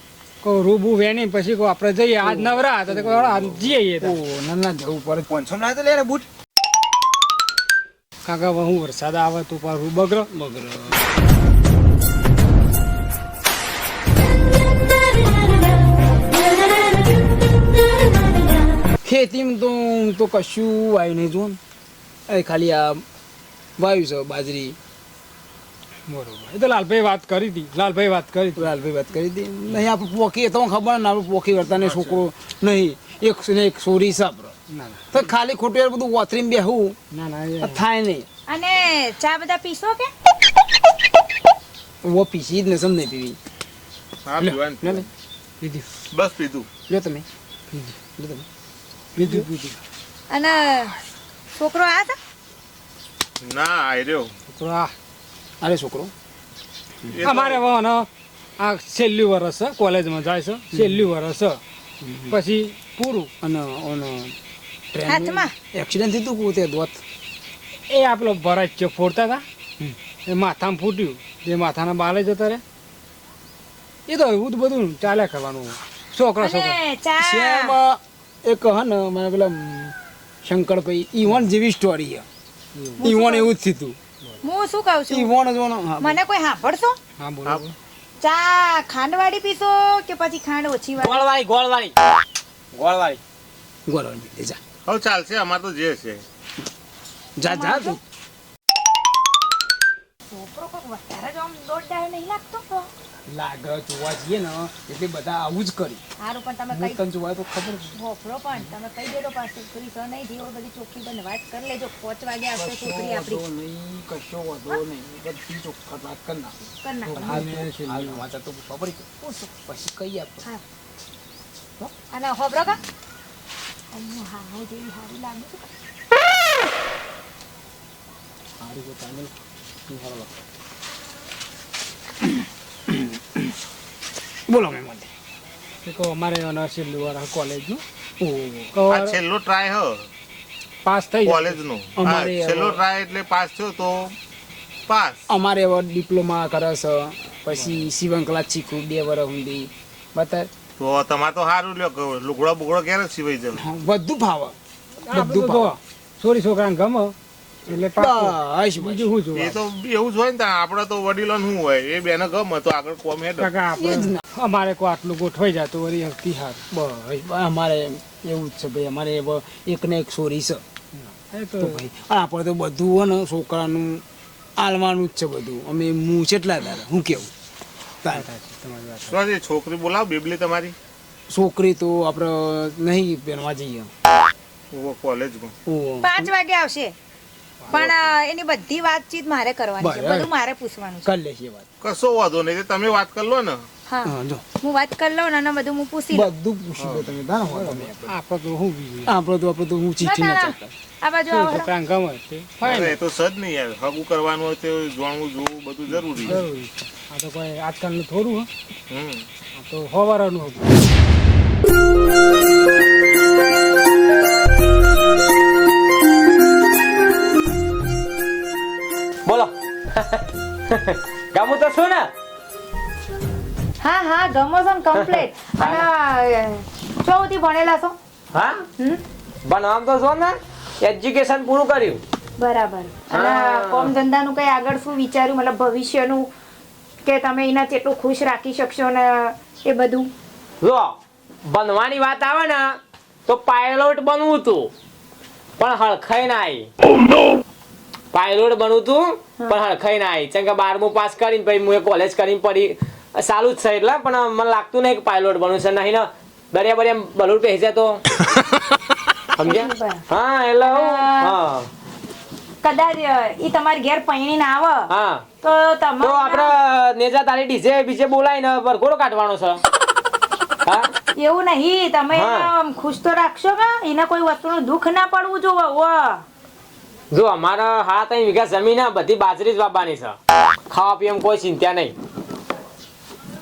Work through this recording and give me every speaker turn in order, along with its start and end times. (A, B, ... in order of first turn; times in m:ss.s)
0:00.4-0:04.2 A
0:02.2-0:06.2 B
0:08.2-0:10.3 A
0:10.3-0:11.0 B
0:19.0-0:21.6 B
0:22.3-0:23.0 B
0:23.8-0:24.8 B
0:26.1-0:28.7 A
0:28.6-0:34.5 B
0:34.7-0:35.2 A
0:35.1-0:37.0 B
0:37.1-0:37.8 A
0:37.6-0:38.3 B
0:38.5-0:40.1 C
0:42.0-0:43.4 B
0:44.3-0:45.1 D
0:44.4-0:45.1 B
0:45.6-0:45.9 A
0:46.1-0:46.7 D
0:46.9-0:47.3 B
0:48.2-0:48.5 B
0:49.2-0:49.8 A
0:49.2-0:49.5 B
0:50.3-0:51.0 C
0:51.6-0:52.2 C
0:53.4-0:54.3 D
0:54.5-0:54.9 A
0:55.6-0:56.1 B
0:57.1-0:57.6 D
0:57.2-0:58.1 A
0:58.6-1:01.6 A
1:00.7-1:01.0 B
1:02.0-1:02.4 B
1:02.3-1:03.3 A
1:03.4-1:04.4 B
1:04.9-1:07.0 B
1:05.1-1:05.5 C
1:07.9-1:12.6 A
1:14.1-1:16.8 A
1:16.4-1:17.8 C
1:17.2-1:22.2 B
1:22.8-1:23.0 A
1:23.0-1:23.5 C
1:23.0-1:24.0 B
1:24.4-1:25.3 C
1:25.1-1:26.2 B
1:26.0-1:27.0 C
1:27.2-1:27.7 A
1:28.2-1:31.2 C
1:31.0-1:31.9 E
1:32.7-1:33.2 E
1:33.9-1:34.6 B
1:34.9-1:36.2 D
1:37.4-1:38.0 B
1:37.4-1:38.0 C
1:40.3-1:42.9 C
1:43.3-1:46.0 B
1:46.2-1:47.0 C
1:46.7-1:48.0 B
1:47.9-1:53.4 C
1:52.5-2:00.5 B
1:56.8-1:57.4 C
1:57.1-1:58.2 A
1:59.2-1:59.5 C
2:02.1-2:02.8 C
2:03.9-2:05.7 C
2:08.6-2:09.3 B
2:09.9-2:10.3 B
2:12.9-2:13.4 B
2:14.5-2:15.1 B
2:15.8-2:17.8 A
2:18.2-2:18.7 B
2:18.7-2:19.2 A
2:18.9-2:20.0 D
2:20.8-2:21.6 A
2:21.2-2:24.2 D
2:22.0-2:22.8 B
2:24.9-2:25.2 D
2:25.3-2:30.5 B
2:30.8-2:33.6 D
2:33.6-2:34.6 B
2:35.1-2:37.1 A
2:35.1-2:35.7 B
2:37.7-2:39.6 A
2:37.9-2:39.1 B
2:39.3-2:43.5 D
2:43.4-2:46.6 A
2:43.8-2:44.2 B
2:46.7-2:50.6 B
2:51.0-2:51.8 A
2:51.6-2:54.0 B
2:54.6-2:57.3 B
2:58.1-2:59.2 A
2:59.1-3:00.8 D
3:01.3-3:03.9 B
3:04.7-3:05.5 D
3:05.7-3:06.3 B
3:06.0-3:07.0 C
3:07.6-3:07.9 A
3:07.7-3:11.1 C
3:09.8-3:10.3 B
3:11.0-3:11.7 B
3:11.8-3:13.6 D
3:13.9-3:16.3 C
3:16.1-3:18.2 B
3:17.5-3:19.1 A
3:19.1-3:20.7 B
3:20.0-3:21.7 C
3:21.3-3:23.0 A
3:22.6-3:26.4 D
3:26.2-3:28.5 A
3:28.9-3:29.2 D
3:29.6-3:30.8 A
3:39.2-3:42.1 E
3:43.8-3:48.0 C
3:44.9-3:45.9 E
3:48.3-3:48.6 E
3:49.4-3:52.0 E
3:52.4-3:56.3 C
3:53.1-3:53.9 E
3:57.0-4:00.1 C
4:00.6-4:02.8 E
4:03.3-4:04.7 E
4:05.6-4:06.7 E
4:08.1-4:18.0 E
4:19.4-4:21.7 E
4:19.4-4:20.0 C
4:20.6-4:21.4 C
4:22.6-4:24.9 C
4:24.9-4:25.2 E
4:25.4-4:26.5 C
4:26.0-4:29.6 E
4:30.6-4:30.9 E
4:31.2-4:36.2 C
4:32.1-4:32.5 E
4:37.1-4:40.2 E
4:40.7-4:41.9 E